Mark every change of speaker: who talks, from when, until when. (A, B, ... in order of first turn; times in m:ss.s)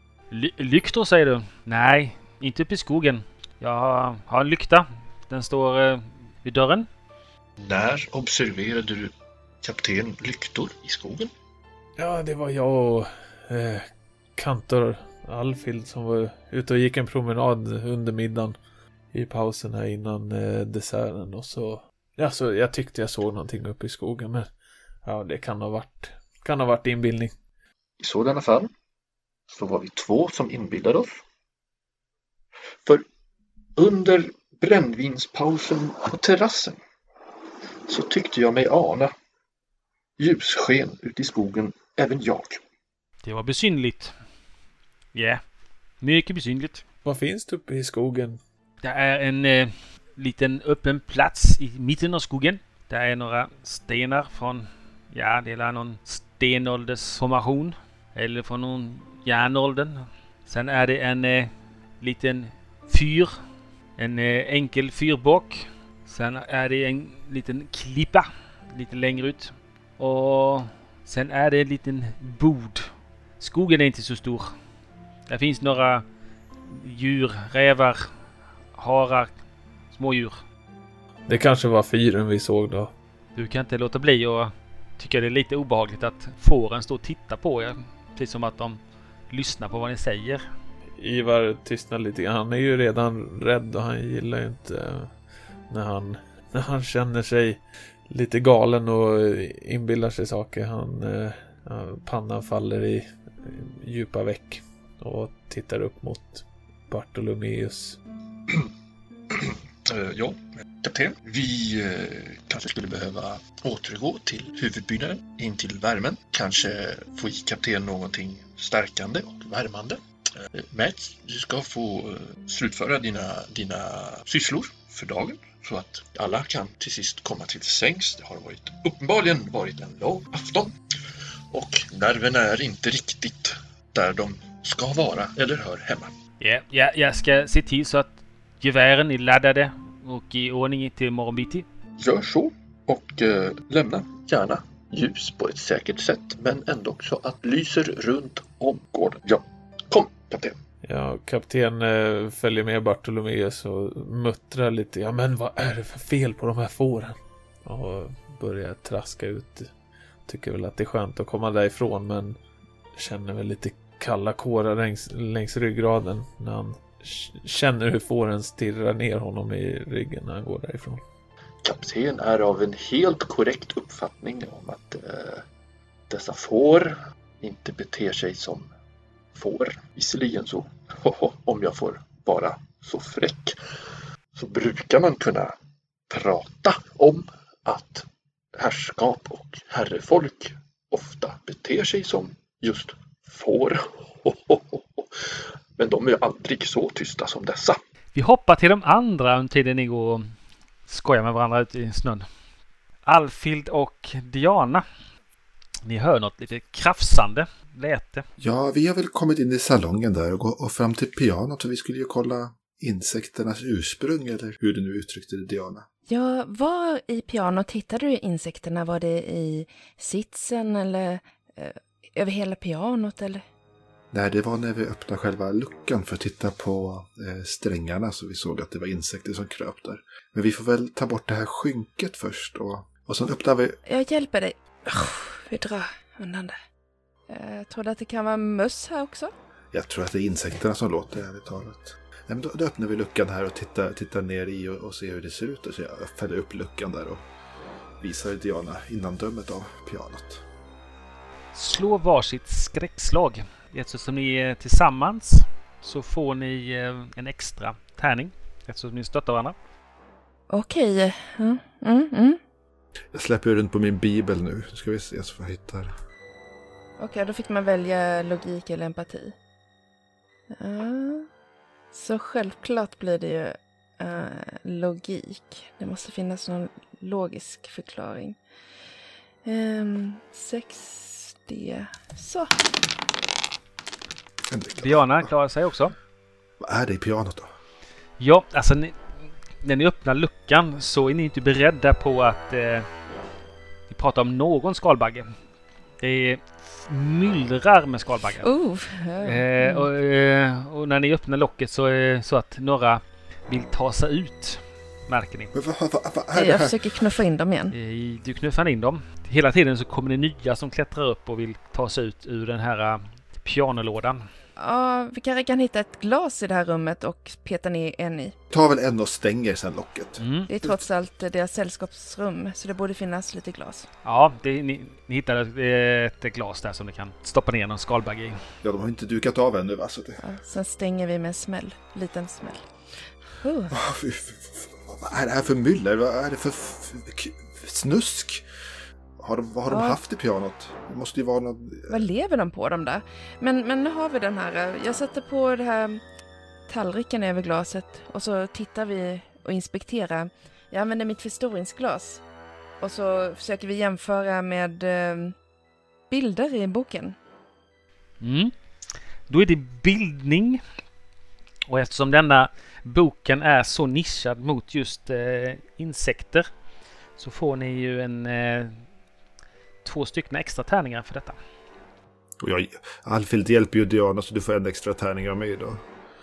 0:00.3-0:06.9 A
0:07.6-0:11.3 B
0:12.0-0:18.6 C
0:19.1-0:24.5 C
0:25.0-0:27.3 C
0:28.0-0:28.7 B
0:29.5-0:31.2 B
0:33.8-0:36.8 B
0:37.8-0:39.1 B
0:40.2-0:42.6 B
0:43.2-0:44.1 A
0:45.1-0:45.4 A
0:46.0-0:46.8 A
0:47.0-0:48.4 C
0:48.8-1:03.4 A
1:04.0-1:14.5 A
1:15.3-1:16.0 A
1:16.6-1:18.1 A
1:18.7-1:19.3 A
1:19.9-1:20.4 A
1:21.3-1:22.9 C
1:23.3-1:28.8 A
1:29.3-1:30.4 A
1:31.0-1:35.1 C
1:35.7-1:48.0 C
1:49.3-2:00.0 B
2:00.5-2:10.7 B
2:11.5-2:16.1 B
2:16.4-2:21.6 A
2:22.0-2:30.6 B
2:30.8-2:39.7 C
2:40.2-2:42.4 C
2:43.0-2:51.0 C
2:51.6-2:55.4 B
2:56.1-2:58.7 B
2:59.3-3:03.6 B
3:04.3-3:05.5 B
3:06.1-3:17.8 B
3:18.1-3:20.3 A
3:20.9-3:22.3 A
3:23.0-3:24.8 A
3:25.8-3:28.2 A
3:28.4-3:35.9 D
3:36.1-3:43.4 E
3:44.1-3:53.8 D
3:53.8-3:56.6 E
3:57.3-3:59.3 E
3:59.7-4:07.2 D
4:08.0-4:10.4 D
4:11.5-4:19.6 A
4:20.5-4:22.4 E
4:23.1-4:25.9 D
4:27.0-4:29.3 E
4:30.5-4:31.3 E
4:31.9-4:38.4 E
4:39.4-4:42.5 E
4:44.5-4:45.3 D
4:44.7-4:45.9 A
4:46.6-4:47.5 D
4:48.2-4:52.9 A
4:53.9-4:55.3 A
4:56.0-4:58.5 A
4:58.4-4:59.9 E
4:59.2-5:05.5 A
5:05.5-5:07.0 D
5:06.3-5:07.7 E
5:07.7-5:14.2 A
5:14.6-5:18.4 E
5:18.5-5:20.8 D
5:20.2-5:20.5 A
5:20.5-5:23.9 E
5:24.0-5:28.4 A
5:28.6-5:30.2 D
5:30.2-5:32.7 E
5:33.4-5:33.7 E
5:33.7-5:38.4 D
5:39.2-5:42.1 D
5:39.7-5:40.0 E
5:41.9-5:46.0 E
5:46.7-5:52.2 E
5:52.8-5:55.3 E
5:56.1-5:57.2 E
5:58.2-5:58.5 A
5:59.3-6:00.6 A
6:01.7-6:06.5 A
6:07.2-6:08.8 A
6:09.8-6:11.4 A
6:12.4-6:15.8 D